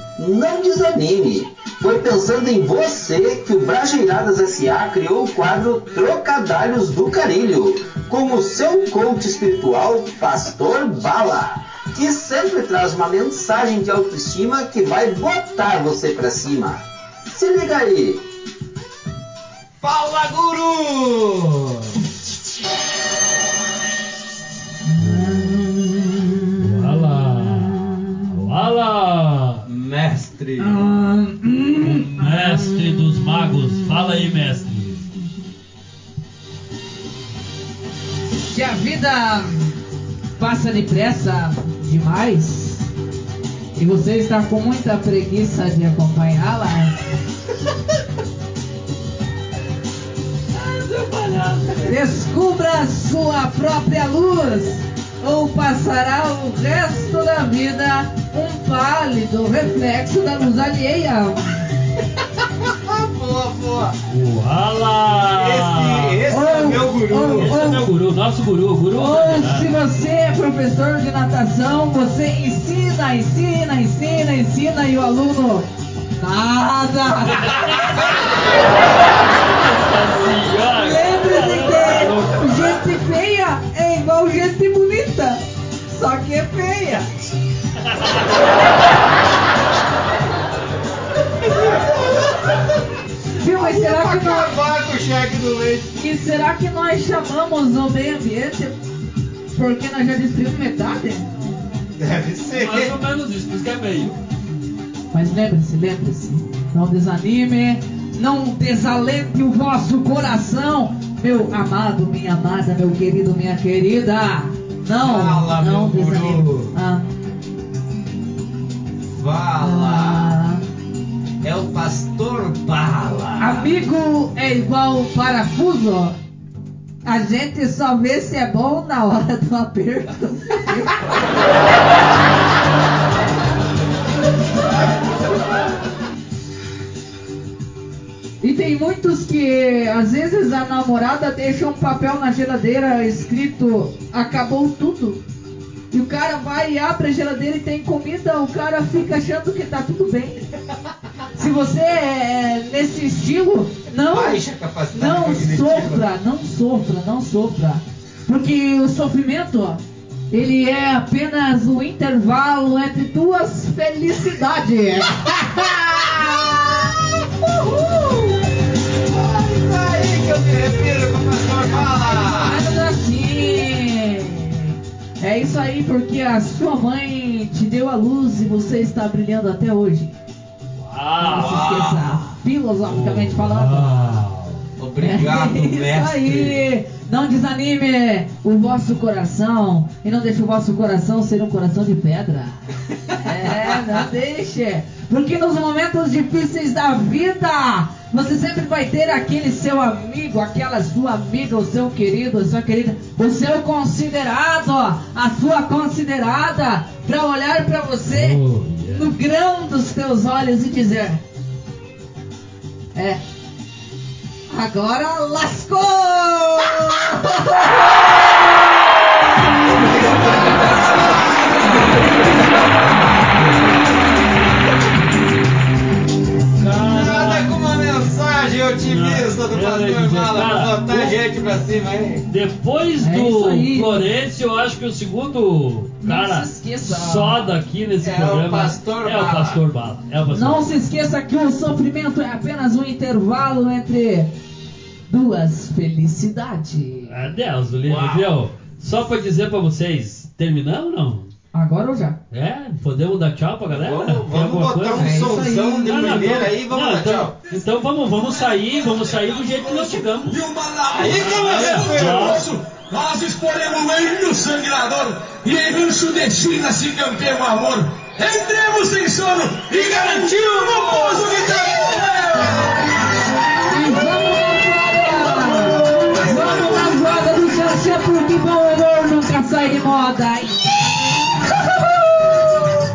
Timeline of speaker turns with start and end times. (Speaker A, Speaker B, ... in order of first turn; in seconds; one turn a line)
Speaker A: 0.2-18.2
Speaker B: 19.8-22.0
Speaker C: 24.9-28.2
Speaker D: 26.6-29.6
Speaker B: 29.6-30.9
Speaker C: 30.6-34.6
Speaker D: 31.8-35.0
Speaker C: 38.5-39.8
Speaker C: 40.4-42.9
Speaker C: 43.8-47.0
Speaker D: 50.5-51.9
Speaker C: 51.8-61.6
Speaker B: 62.4-64.0
Speaker D: 64.1-66.2
Speaker B: 65.3-67.6
Speaker C: 66.3-67.9
Speaker D: 67.3-69.7
Speaker C: 68.9-75.7
Speaker C: 76.2-78.1
Speaker D: 77.3-82.8
Speaker C: 80.7-87.1
Speaker D: 87.8-88.3
Speaker B: 91.5-92.2
Speaker C: 93.4-94.5
Speaker B: 93.4-95.9
Speaker C: 96.0-98.8
Speaker C: 99.5-101.3
Speaker B: 102.0-103.0
Speaker D: 102.5-104.2
Speaker C: 105.1-117.4
Speaker B: 115.0-116.8
Speaker B: 119.1-120.3
Speaker C: 119.6-120.6
Speaker B: 121.4-123.7
Speaker C: 123.4-126.2
Speaker C: 127.0-131.1
Speaker C: 138.4-145.2
Speaker C: 145.9-150.5
Speaker C: 151.3-154.4
Speaker B: 154.1-156.0
Speaker C: 154.9-166.8
Speaker B: 167.4-168.3
Speaker C: 167.6-168.3
Speaker B: 169.0-172.6
Speaker C: 171.6-180.1
Speaker D: 180.8-181.9
Speaker C: 181.2-184.2
Speaker B: 181.3-182.3
Speaker D: 182.8-184.6
Speaker B: 184.8-186.6
Speaker C: 185.0-192.6
Speaker C: 193.2-211.2
Speaker D: 208.1-209.1
Speaker C: 212.9-213.2
Speaker C: 214.5-222.5
Speaker B: 219.7-222.6
Speaker B: 223.2-223.8
Speaker D: 226.6-227.5
Speaker B: 226.7-232.2
Speaker D: 228.8-231.2
Speaker D: 232.3-240.7
Speaker C: 233.0-234.1
Speaker C: 236.0-237.5
Speaker B: 238.0-239.6
Speaker C: 240.3-244.3
Speaker C: 245.1-247.3
Speaker D: 247.1-251.3
Speaker B: 247.8-248.3
Speaker C: 251.5-252.2
Speaker D: 252.3-255.3
Speaker B: 253.7-257.3
Speaker C: 254.9-256.2
Speaker D: 255.8-260.4
Speaker E: 260.2-272.7
Speaker B: 260.9-262.4
Speaker D: 261.5-262.4
Speaker C: 273.7-280.7
Speaker C: 281.4-282.4